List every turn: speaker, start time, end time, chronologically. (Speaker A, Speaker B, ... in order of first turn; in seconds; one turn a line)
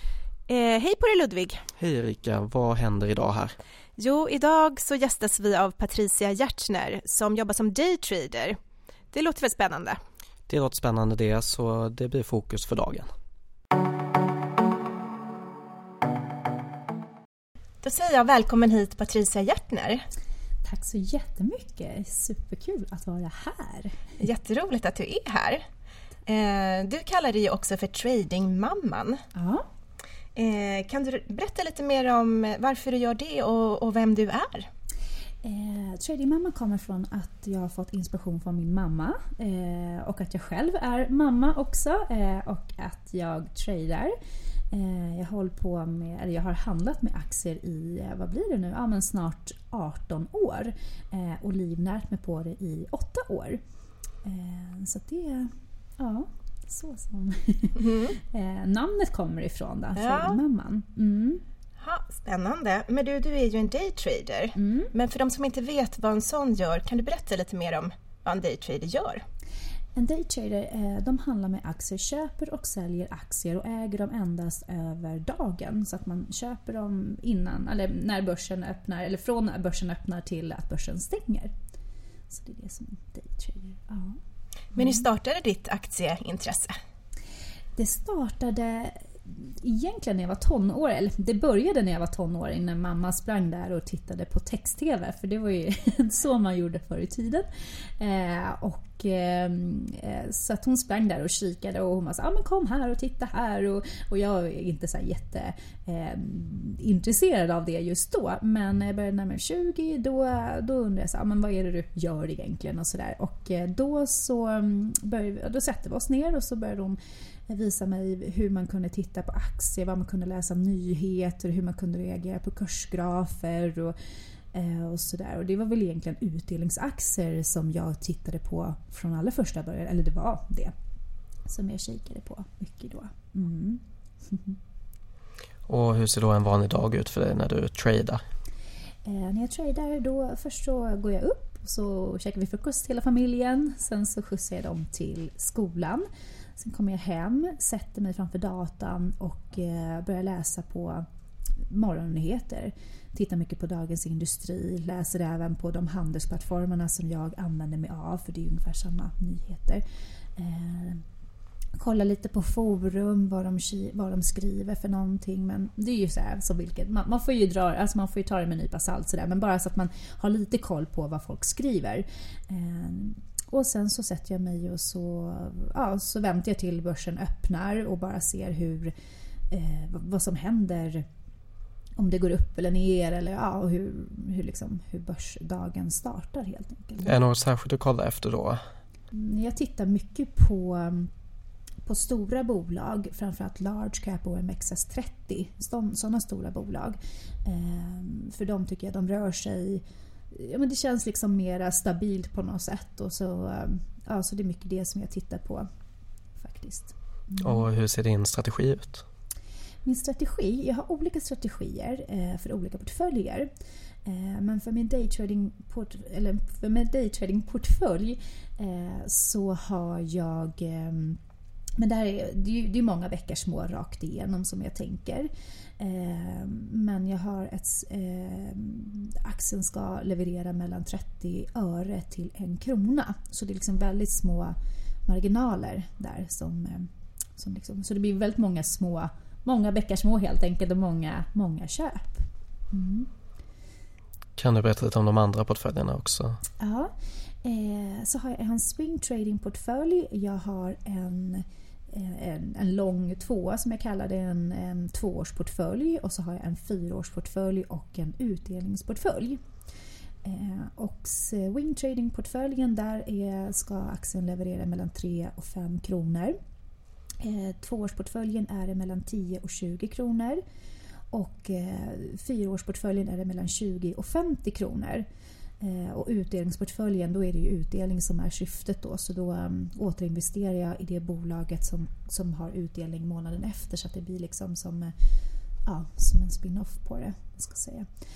Speaker A: 0.5-1.6
Speaker B: 1.8-3.6
Speaker A: 4.0-8.6
Speaker A: 9.1-10.0
Speaker B: 10.5-13.1
Speaker A: 17.8-20.0
Speaker C: 20.6-24.0
Speaker A: 24.2-25.6
Speaker A: 26.2-29.2
Speaker C: 29.3-29.6
Speaker A: 30.3-34.7
Speaker C: 35.4-44.1
Speaker C: 44.7-53.6
Speaker C: 54.2-61.4
Speaker A: 57.8-58.2
Speaker A: 60.0-60.4
Speaker A: 61.8-69.2
Speaker C: 64.5-64.9
Speaker C: 70.0-81.5
Speaker C: 82.3-84.2
Speaker C: 84.7-85.0
Speaker A: 84.7-86.7
Speaker C: 87.8-117.0
Speaker C: 117.5-123.9
Speaker C: 124.5-130.7
Speaker C: 131.5-134.6
Speaker B: 135.7-138.2
Speaker C: 139.0-146.0
Speaker C: 146.6-151.0
Speaker C: 151.7-159.8
Speaker C: 160.3-161.0
Speaker C: 161.8-178.9
Speaker C: 179.5-181.0
Speaker C: 182.0-187.2
Speaker B: 187.0-188.6
Speaker C: 189.1-191.1
Speaker C: 191.8-205.6
Speaker C: 206.4-207.7
Speaker B: 207.4-209.0
Speaker C: 209.8-213.5
Speaker C: 214.1-221.2
Speaker C: 221.8-234.5
Speaker C: 235.1-243.1
Speaker B: 244.4-246.4
Speaker C: 246.6-246.9
Speaker C: 247.4-259.4
Speaker C: 260.2-266.3
Speaker C: 267.2-270.4
Speaker C: 271.1-275.1
Speaker C: 275.6-284.9
Speaker C: 285.6-287.9